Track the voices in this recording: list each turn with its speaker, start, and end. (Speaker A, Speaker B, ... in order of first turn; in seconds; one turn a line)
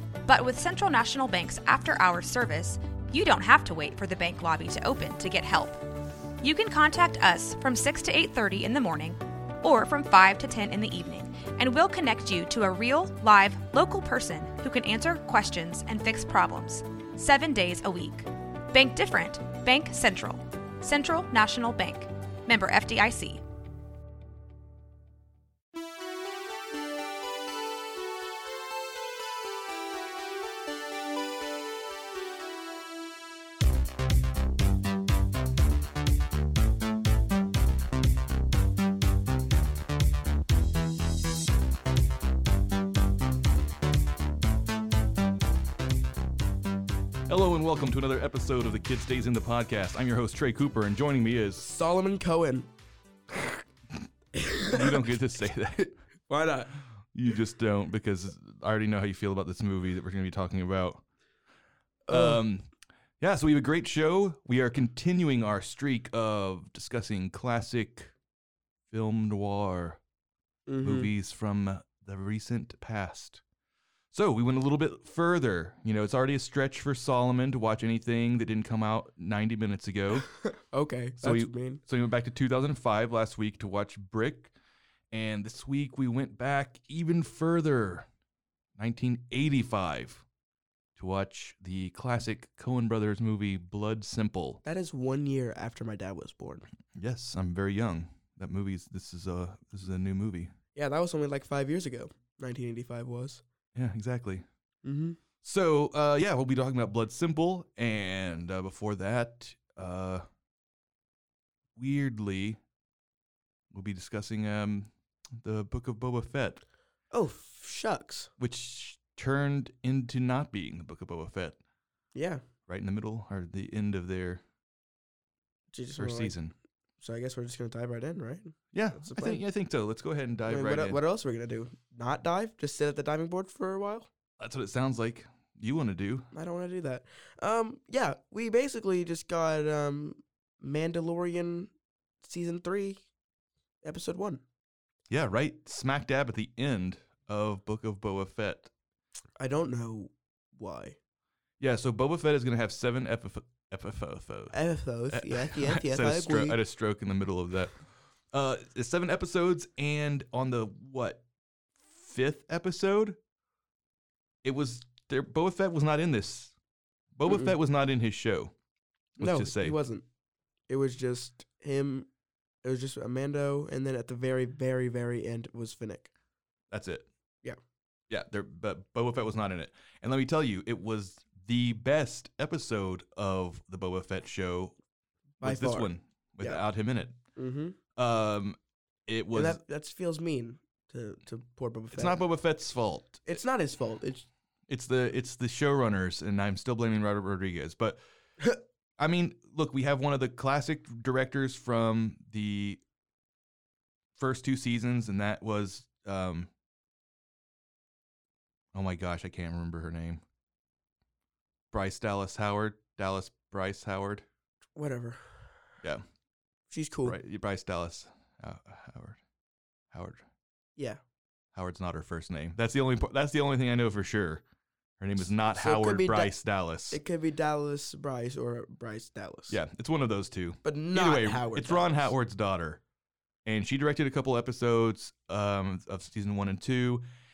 Speaker A: 0.3-5.8
Speaker A: 6.4-23.4
Speaker B: 47.3-51.7
Speaker C: 51.6-52.7
Speaker C: 54.4-55.1
Speaker B: 54.7-55.9
Speaker C: 56.3-56.8
Speaker B: 57.1-61.0
Speaker C: 62.1-62.4
Speaker B: 62.1-62.7
Speaker B: 63.2-68.1
Speaker B: 68.9-70.0
Speaker C: 70.7-71.1
Speaker B: 70.8-73.4
Speaker B: 74.1-80.3
Speaker C: 80.3-81.8
Speaker B: 81.2-84.5
Speaker B: 85.1-88.1
Speaker B: 88.8-90.2
Speaker B: 91.0-94.6
Speaker C: 94.6-96.7
Speaker B: 97.0-100.5
Speaker C: 100.8-103.4
Speaker B: 103.8-104.5
Speaker C: 104.8-105.2
Speaker B: 105.4-110.2
Speaker B: 111.8-112.6
Speaker B: 113.7-116.6
Speaker C: 117.1-118.3
Speaker B: 118.4-121.6
Speaker C: 122.2-122.4
Speaker B: 122.7-124.4
Speaker C: 125.7-126.4
Speaker B: 126.0-126.5
Speaker C: 127.0-129.4
Speaker B: 128.7-131.0
Speaker C: 130.5-134.1
Speaker B: 134.4-136.3
Speaker C: 136.3-141.7
Speaker C: 142.2-143.0
Speaker C: 143.8-144.4
Speaker B: 145.1-148.7
Speaker C: 149.4-151.0
Speaker B: 151.6-154.6
Speaker C: 154.5-156.6
Speaker B: 155.1-157.8
Speaker B: 158.3-161.2
Speaker B: 161.8-163.2
Speaker B: 164.4-166.5
Speaker B: 167.2-168.5
Speaker C: 167.3-167.5
Speaker B: 169.2-169.8
Speaker C: 169.2-170.1
Speaker C: 170.7-172.1
Speaker C: 172.6-176.1
Speaker B: 176.7-177.1
Speaker B: 178.1-184.8
Speaker C: 185.4-186.6
Speaker B: 185.4-187.2
Speaker C: 187.4-187.8
Speaker B: 188.0-189.6
Speaker C: 189.3-192.2
Speaker B: 191.9-193.4
Speaker C: 193.3-194.3
Speaker B: 194.7-198.0
Speaker B: 199.0-202.8
Speaker B: 204.2-206.5
Speaker B: 208.7-210.2
Speaker B: 211.7-214.3
Speaker C: 214.8-215.2
Speaker C: 216.7-217.2
Speaker B: 217.1-219.2
Speaker B: 219.9-220.2
Speaker B: 221.5-224.4
Speaker B: 225.0-227.0
Speaker C: 225.5-226.3
Speaker C: 226.9-229.6
Speaker B: 229.5-232.8
Speaker C: 230.6-232.1
Speaker B: 233.4-237.1